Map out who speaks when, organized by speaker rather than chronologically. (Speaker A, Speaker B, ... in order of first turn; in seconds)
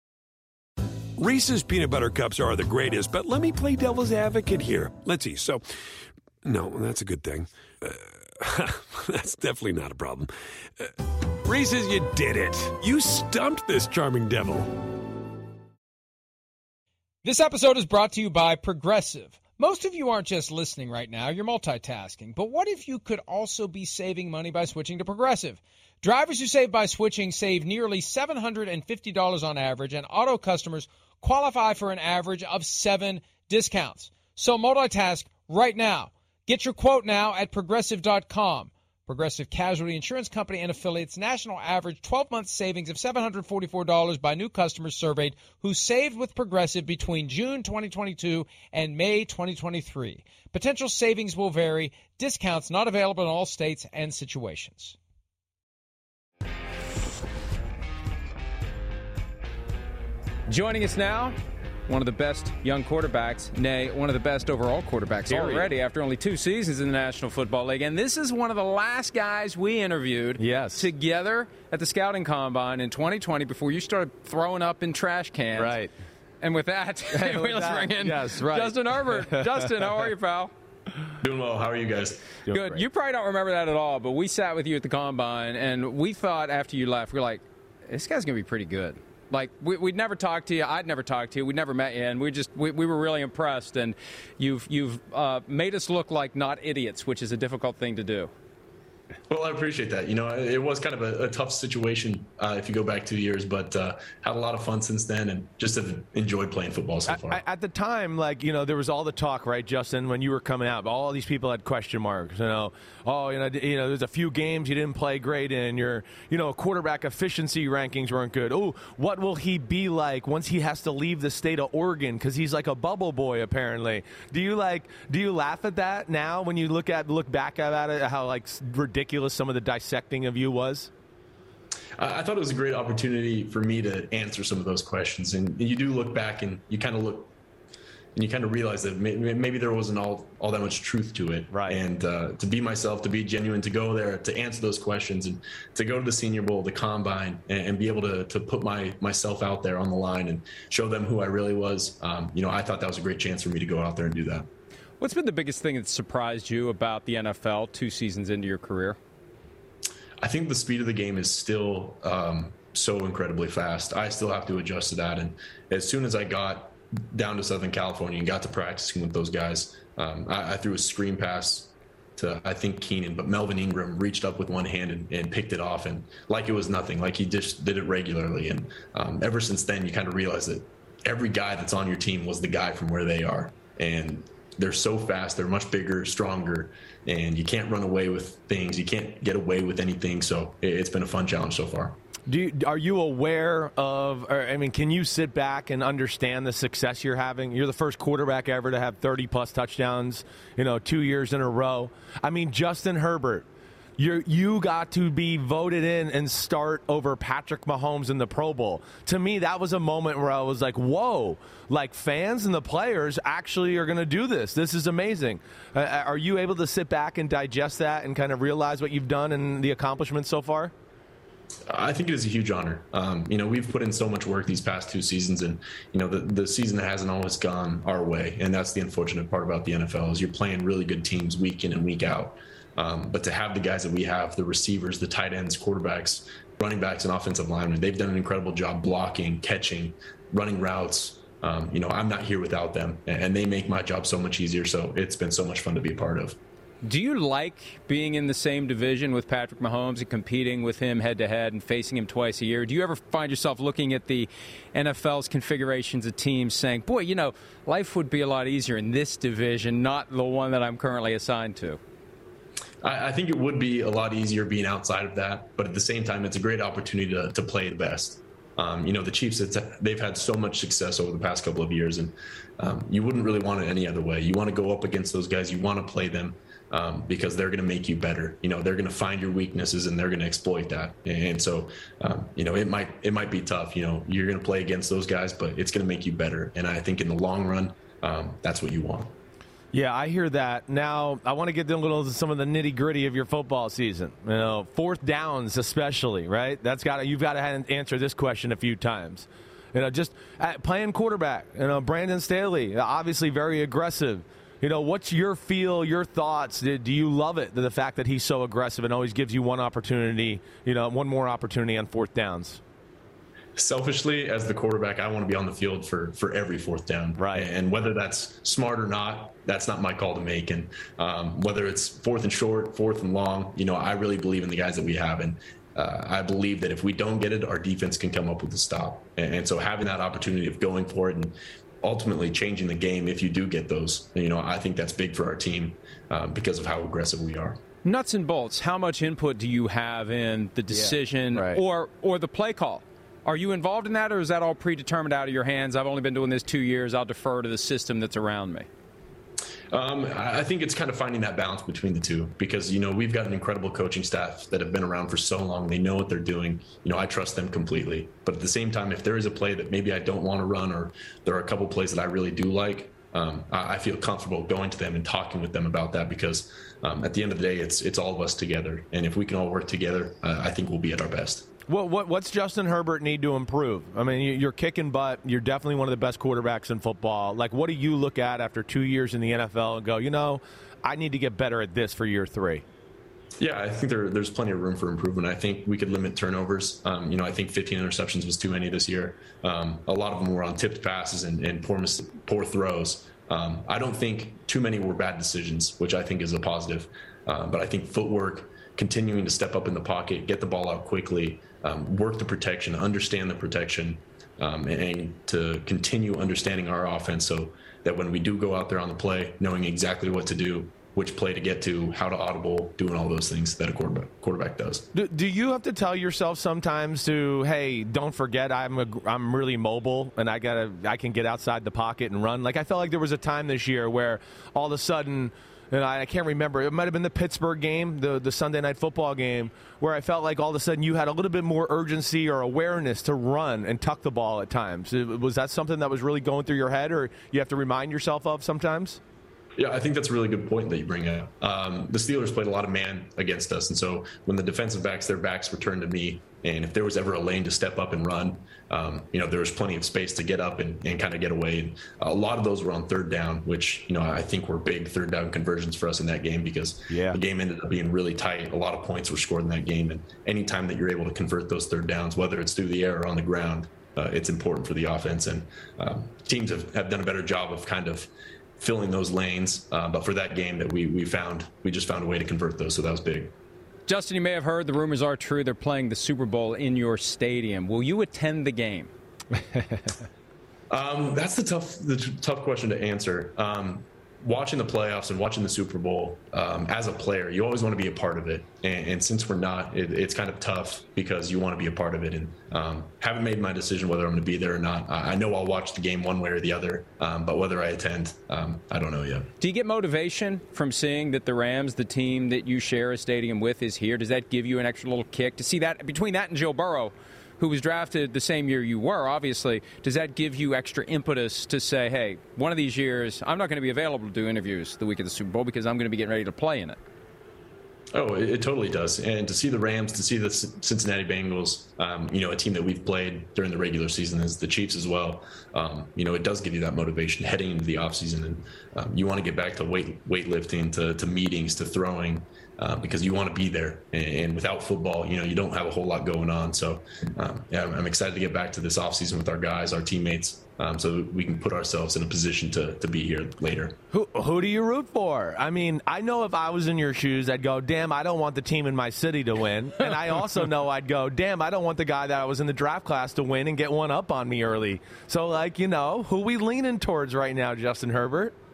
Speaker A: 1.1-5.7, 6.4-14.9
Speaker B: 17.2-55.0, 60.5-61.4, 61.9-75.8, 76.4-80.5, 82.5-98.3, 155.0-159.0, 246.8-261.8, 337.8-348.7, 473.9-478.9, 499.4-516.8
Speaker C: 65.3-65.7, 70.4-70.9, 75.6-75.9, 77.1-79.9, 82.5-82.8, 107.1-130.9, 141.5-141.8, 192.3-203.4, 204.0-220.7, 289.7-312.6, 317.2-317.5, 340.7-341.6, 371.7-382.6, 414.9-439.0, 456.9-457.2, 543.9-558.3
Speaker D: 81.2-82.3, 99.3-107.4, 132.0-137.3, 138.1-154.5, 160.2-192.0, 221.7-246.4, 262.8-289.1, 313.6-337.6, 349.7-371.5, 383.4-414.9, 439.6-473.3, 480.7-499.3, 517.9-543.8